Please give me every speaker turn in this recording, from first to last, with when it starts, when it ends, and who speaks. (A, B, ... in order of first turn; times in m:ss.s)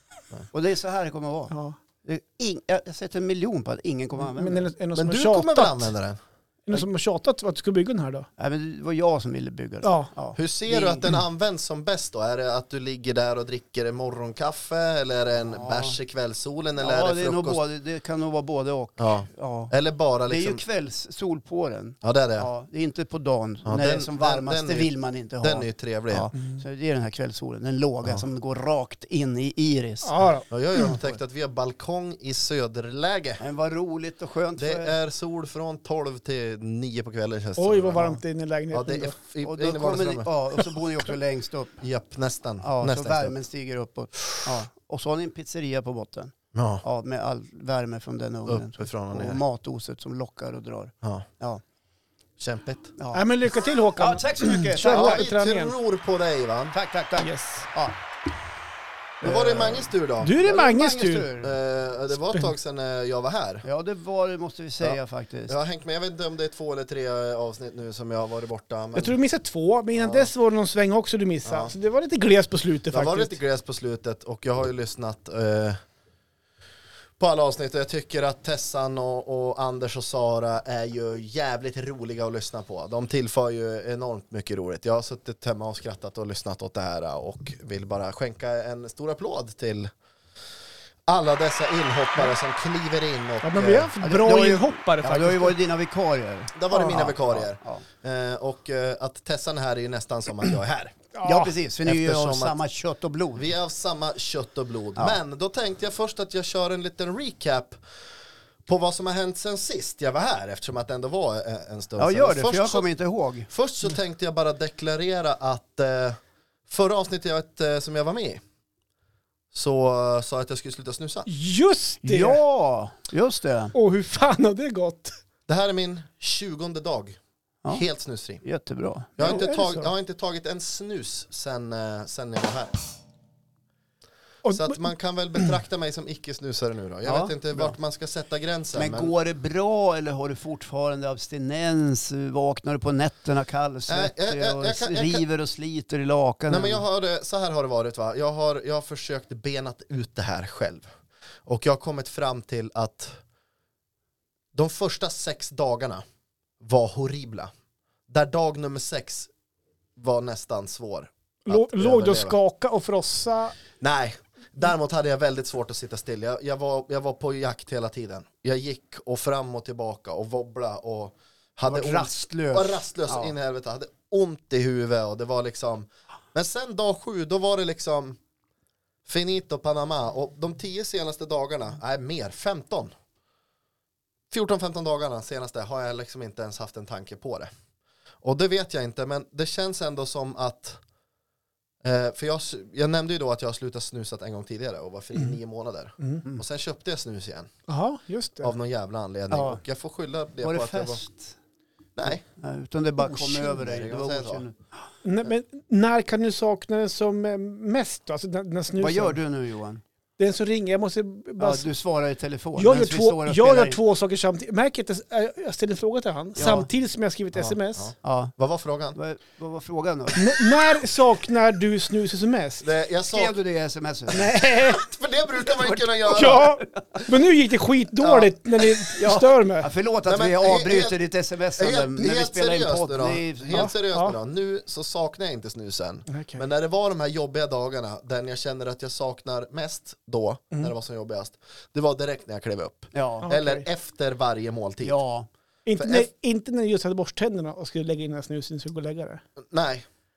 0:00.5-0:04.7 A
0:01.5-0:01.8 B
0:04.2-0:05.9 B
0:05.0-0:06.2 C
0:06.7-0:08.3 B
0:08.4-0:11.0 A
0:09.8-0:10.1 B
0:10.4-0:17.6 C
0:15.4-0:16.0 A
0:16.8-0:19.7 A
0:19.0-0:20.6 C
0:20.3-0:30.2 A
0:22.0-0:22.5 C
0:23.6-0:26.3 C
0:30.0-0:30.5 B
0:30.5-0:33.4 C
0:33.4-0:34.9 A
0:34.6-0:38.2 C
0:37.6-0:39.2 B
0:38.7-0:40.3 C
0:39.4-0:41.8 A
0:41.8-0:43.4 C
0:42.6-0:51.6 A
0:46.5-0:46.8 C
0:48.5-0:49.4 C
0:52.4-0:53.0 C
0:53.0-0:53.3 A
0:53.1-0:55.7 B
0:54.0-0:55.3 A
0:54.8-0:56.8 C
0:56.7-0:58.0 A
0:57.2-0:57.7 B
0:59.2-1:01.6 A
0:59.2-1:00.4 C
1:00.2-1:01.3 B
1:01.4-1:03.6 C
1:03.6-1:05.6 A
1:05.5-1:09.2 C
1:09.0-1:13.4 B
1:09.9-1:10.3 C
1:11.4-1:11.7 C
1:12.9-1:15.8 C
1:17.2-1:29.9 C
1:31.1-1:33.9 C
1:33.4-1:35.6 B
1:34.0-1:37.8 A
1:36.6-1:41.0 C
1:36.7-1:37.1 B
1:41.1-1:41.5 B
1:41.2-1:43.5 A
1:41.8-1:42.6 C
1:43.4-1:47.8 C
1:48.7-1:52.9 C
1:52.0-1:53.5 A
1:53.5-1:58.4 C
1:59.5-2:01.3 C
2:01.3-2:02.4 B
2:02.0-2:03.8 A
2:03.8-2:05.2 B
2:05.5-2:07.2 C
2:07.7-2:08.4 C
2:08.4-2:09.5 A
2:09.2-2:12.8 C
2:09.2-2:09.9 B
2:14.4-2:14.8 B
2:14.5-2:19.1 C
2:17.0-2:17.8 A
2:18.8-2:26.8 A
2:23.9-2:25.2 C
2:26.5-2:30.9 C
2:31.5-2:33.2 C
2:34.5-2:36.0 C
2:36.6-2:37.5 C
2:38.1-2:39.3 C
2:40.0-2:42.4 C
2:41.5-2:43.6 B
2:43.8-2:58.2 C
2:51.7-2:53.4 A
2:59.1-3:02.9 C
3:04.3-3:07.5 C
3:08.2-3:10.8 C
3:11.8-3:17.5 C
3:17.7-3:18.5 B
3:18.4-3:21.0 C
3:19.3-3:19.6 A
3:20.4-3:21.4 A
3:22.0-3:22.2 C
3:22.1-3:24.6 A
3:23.0-3:24.4 C
3:25.0-3:29.2 B
3:28.8-3:29.8 A
3:30.2-3:31.7 B
3:31.4-3:33.8 A
3:32.6-3:37.9 B
3:36.4-3:36.7 A
3:37.4-3:39.0 C
3:38.0-3:38.3 A
3:39.0-3:40.2 A
3:40.2-3:42.6 B
3:42.6-3:43.4 C
3:43.1-3:44.3 A
3:44.1-3:44.9 B
3:44.6-3:46.5 C
3:45.5-3:46.8 A
3:46.1-3:49.7 B
3:48.0-3:48.3 C
3:49.0-3:53.7 A
3:50.1-3:51.0 C
3:51.6-4:05.0 C
3:53.5-3:54.2 B
3:56.1-3:56.4 B
4:02.9-4:03.3 A
4:03.2-4:03.6 B
4:04.8-4:05.3 A
4:05.7-4:09.2 B
4:05.8-4:06.1 C
4:09.4-4:09.9 C